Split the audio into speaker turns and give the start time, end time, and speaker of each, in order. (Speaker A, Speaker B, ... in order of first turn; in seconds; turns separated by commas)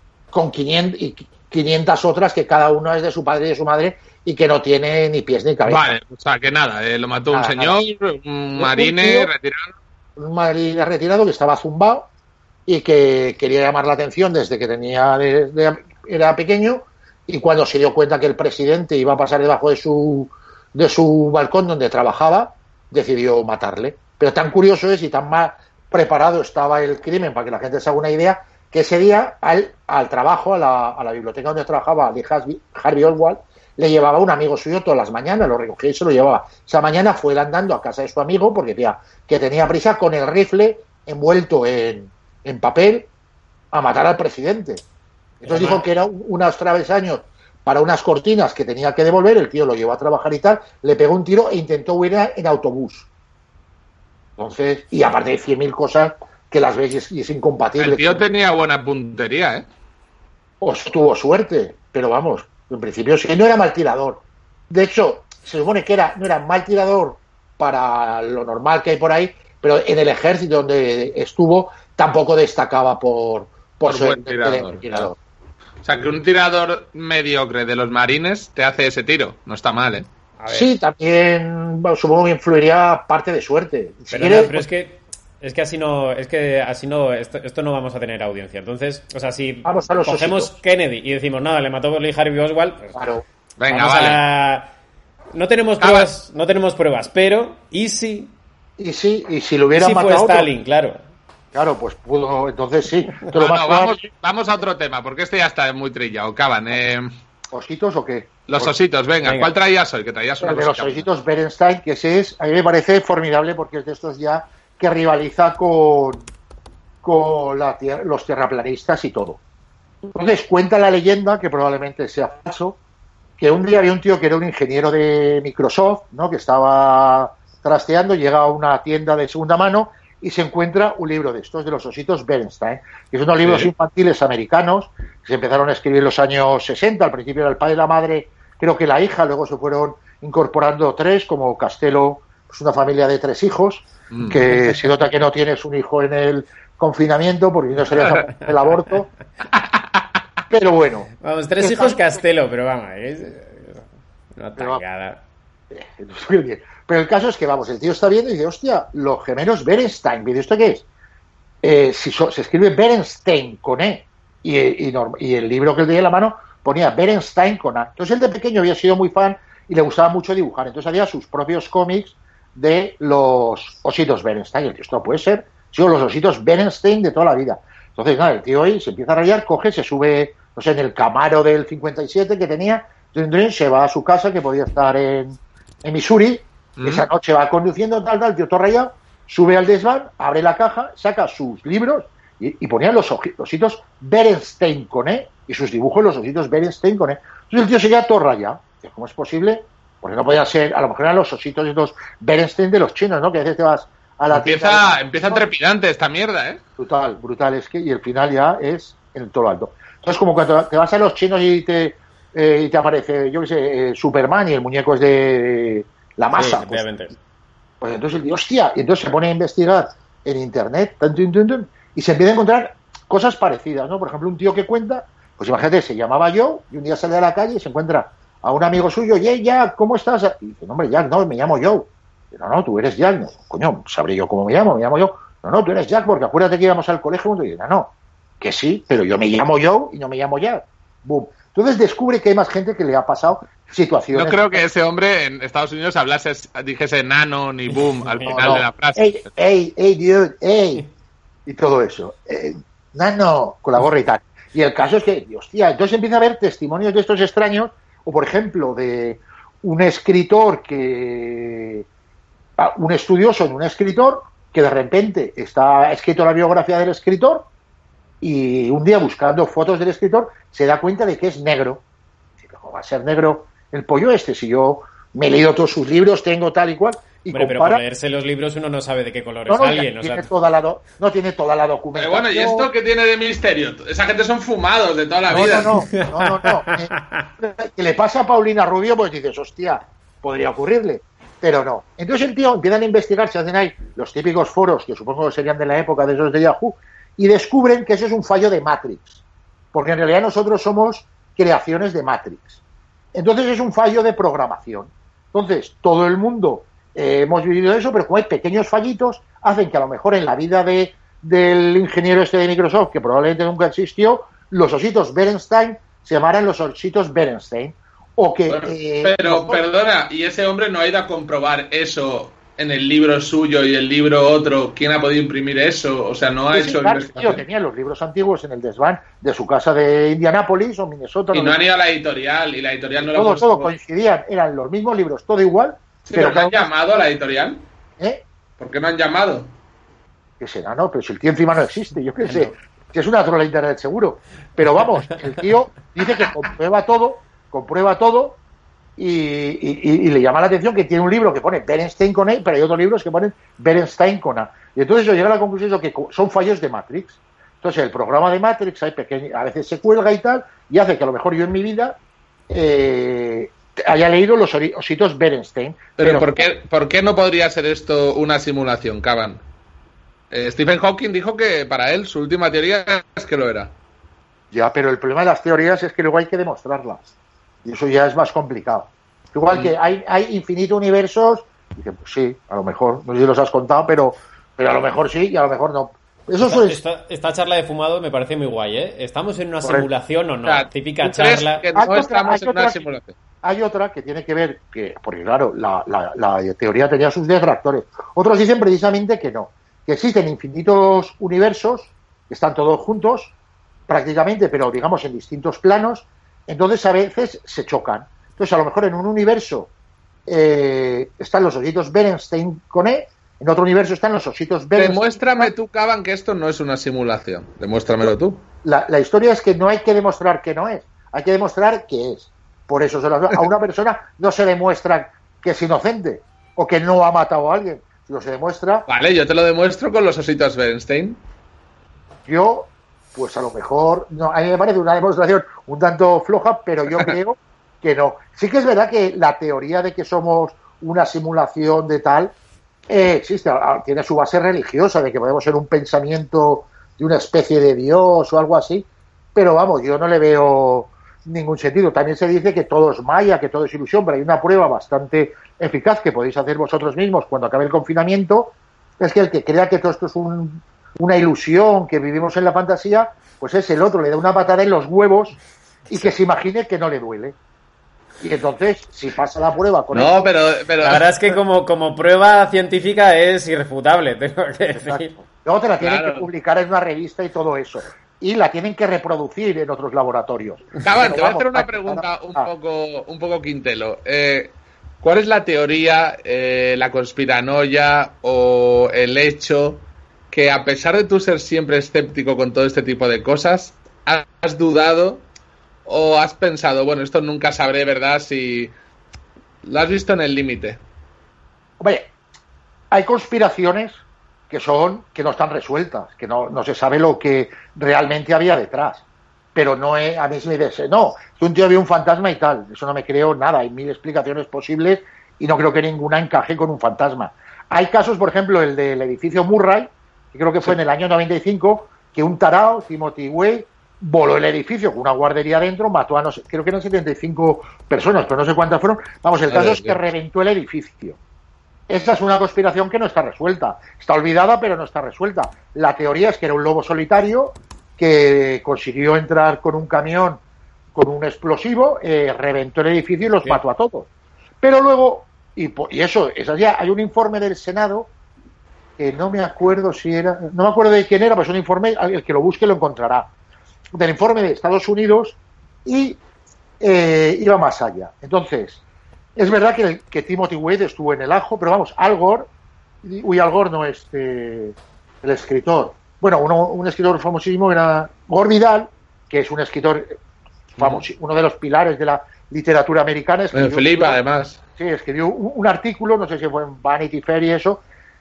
Speaker A: 0.3-5.9, Speaker B: 5.7-9.8, Speaker A: 7.3-7.8, Speaker A: 8.6-9.3, Speaker A: 10.2-12.1, Speaker A: 12.7-43.1, Speaker A: 43.7-44.8, Speaker A: 45.4-53.1, Speaker B: 45.5-45.8, Speaker A: 54.4-58.2, Speaker B: 57.8-59.7, Speaker A: 60.6-75.2, Speaker B: 73.9-75.1, Speaker B: 75.8-80.1, Speaker C: 80.4-80.7, Speaker A: 80.5-84.7, Speaker C: 84.1-93.0, Speaker A: 89.7-90.5, Speaker A: 93.0-93.2, Speaker B: 93.6-94.2, Speaker C: 93.7-94.7, Speaker C: 95.3-98.3, Speaker B: 95.8-96.1, Speaker A: 98.8-100.5, Speaker C: 99.8-101.0, Speaker A: 101.5-104.0, Speaker B: 103.3-107.1, Speaker A: 107.5-108.7, Speaker B: 108.5-111.1, Speaker C: 109.2-109.5, Speaker A: 110.4-116.3, Speaker A: 117.0-119.4, Speaker A: 120.1-122.8, Speaker A: 123.4-149.1, Speaker B: 133.4-133.7, Speaker B: 144.1-144.5, Speaker B: 149.5-150.1, Speaker A: 150.5-151.1, Speaker C: 151.2-155.2, Speaker A: 151.6-152.2, Speaker A: 154.6-154.8, Speaker A: 155.7-160.9, Speaker A: 161.6-205.4, Speaker B: 186.8-187.1, Speaker B: 204.3-206.6, Speaker A: 206.8-216.8, Speaker C: 216.3-217.2, Speaker A: 217.8-244.6, Speaker B: 244.1-249.2, Speaker C: 248.1-248.6, Speaker A: 248.2-250.9, Speaker A: 251.5-261.9, Speaker A: 262.6-267.5, Speaker A: 268.2-271.8, Speaker A: 272.4-277.8, Speaker C: 277.3-280.3, Speaker A: 279.5-282.7, Speaker B: 281.9-285.7, Speaker A: 285.3-299.2, Speaker C: 285.4-287.3, Speaker A: 299.7-302.6, Speaker A: 303.1-319.6, Speaker B: 318.5-327.4, Speaker A: 326.5-331.6, Speaker B: 331.3-333.7, Speaker A: 333.0-336.7, Speaker B: 336.1-337.6, Speaker A: 338.0-338.2, Speaker B: 338.6-339.5, Speaker A: 340.4-348.4, Speaker A: 349.0-362.0, Speaker A: 362.5-366.5, Speaker B: 366.0-369.4, Speaker B: 370.3-373.7, Speaker A: 374.5-377.0, Speaker A: 377.6-386.8, Speaker C: 386.4-391.7, Speaker A: 389.6-389.9, Speaker B: 390.4-393.2, Speaker A: 391.8-392.8, Speaker A: 393.4-403.3, Speaker A: 403.9-409.7, Speaker A: 410.3-415.5, Speaker B: 414.8-418.4, Speaker A: 418.6-428.9, Speaker B: 428.9-431.2, Speaker A: 432.3-442.3, Speaker A: 442.9-465.4, Speaker C: 465.9-466.1, Speaker A: 465.9-467.4, Speaker A: 468.2-470.2, Speaker B: 469.9-471.4, Speaker C: 470.8-475.1, Speaker A: 474.7-482.5, Speaker B: 475.8-476.3, Speaker B: 480.8-495.2, Speaker B: 495.9-498.7, Speaker B: 499.6-500.8, Speaker A: 501.8-502.1, Speaker A: 502.9-531.2, Speaker B: 529.5-530.0, Speaker A: 531.9-540.4, Speaker A: 541.0-544.1, Speaker A: 544.6-548.1, Speaker A: 549.0-553.3, Speaker A: 554.0-556.2, Speaker A: 556.8-558.8, Speaker A: 559.4-562.5, Speaker A: 563.0-570.2, Speaker A: 570.8-574.2, Speaker B: 570.8-571.0, Speaker B: 573.5-574.6, Speaker A: 574.8-577.8